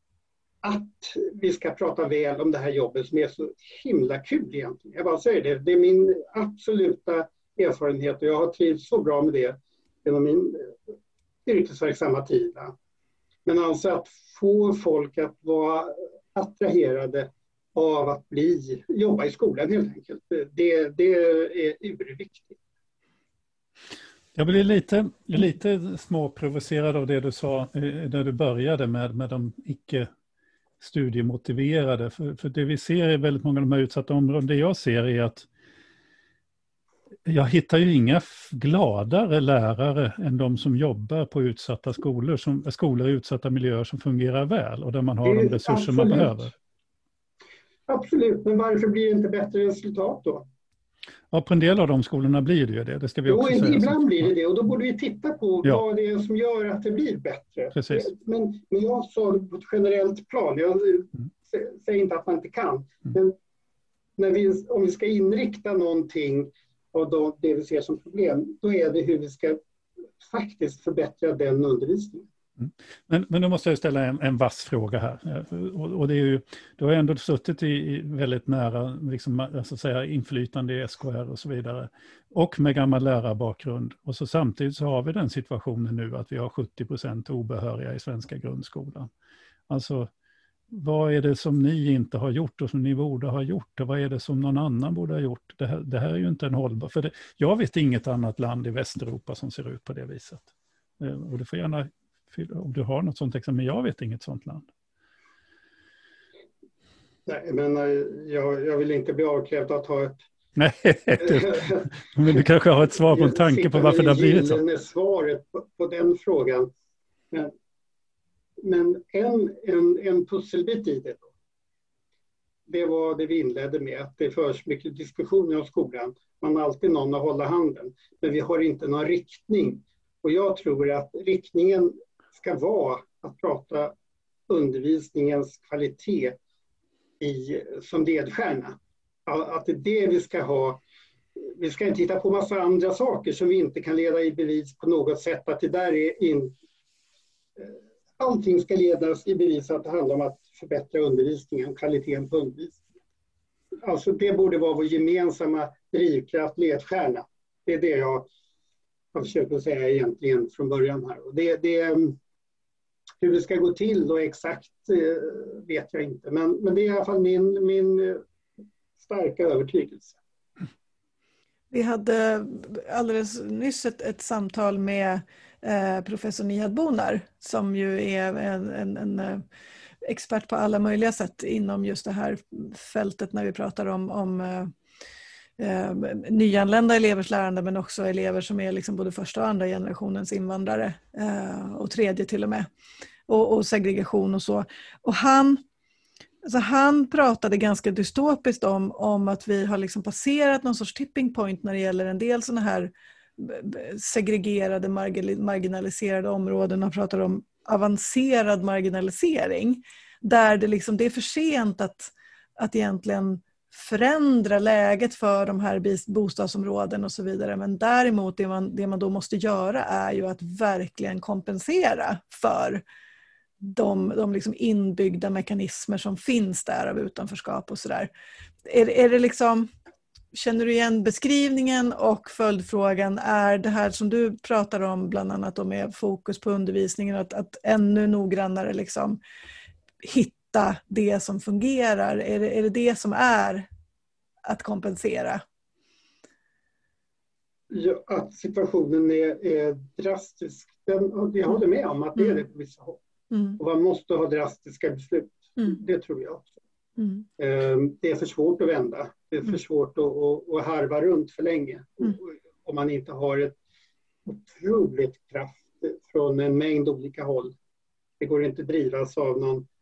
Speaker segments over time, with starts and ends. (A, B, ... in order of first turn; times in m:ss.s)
0:00.6-0:10.8 A
0:11.4-0:12.7 A
0:13.4-0:22.6 A
0:24.3-0:30.1 B
0:30.8-0:35.5 B
0:37.2-0:46.5 B
0:45.2-0:46.5 A
0:47.9-0:50.4 A
0:51.3-0:54.3 B
0:53.3-1:03.3 A
0:57.7-0:58.0 B
1:04.2-1:09.6 A
1:10.2-1:12.3 A
1:12.6-1:29.1 B
1:29.7-1:30.1 B
1:30.7-1:44.7 B
1:47.3-1:50.2 A
1:50.6-1:54.6 B
1:51.2-1:51.9 A
1:53.1-1:56.7 A
1:58.6-2:01.3 A
2:02.7-2:13.9 A
2:14.5-2:16.4 A
2:17.2-2:20.8 A
2:21.4-2:26.5 A
2:27.6-2:32.8 A
2:33.8-2:38.3 A
2:39.1-2:42.2 A
2:43.2-2:48.2 A
2:49.0-2:50.2 A
2:51.7-2:59.4 C
3:00.0-3:04.7 C
3:05.6-3:12.7 C
3:13.3-3:15.6 C
3:16.4-3:42.8 C
3:43.6-3:48.1 C
3:48.6-3:49.7 C
3:50.3-3:59.2 C
4:00.0-4:03.7 C
4:04.4-4:05.4 C
4:07.7-4:13.0 A
4:13.3-4:13.6 C
4:13.6-4:16.6 A
4:17.4-4:23.6 A
4:24.2-4:27.5 A
4:28.2-4:29.6 A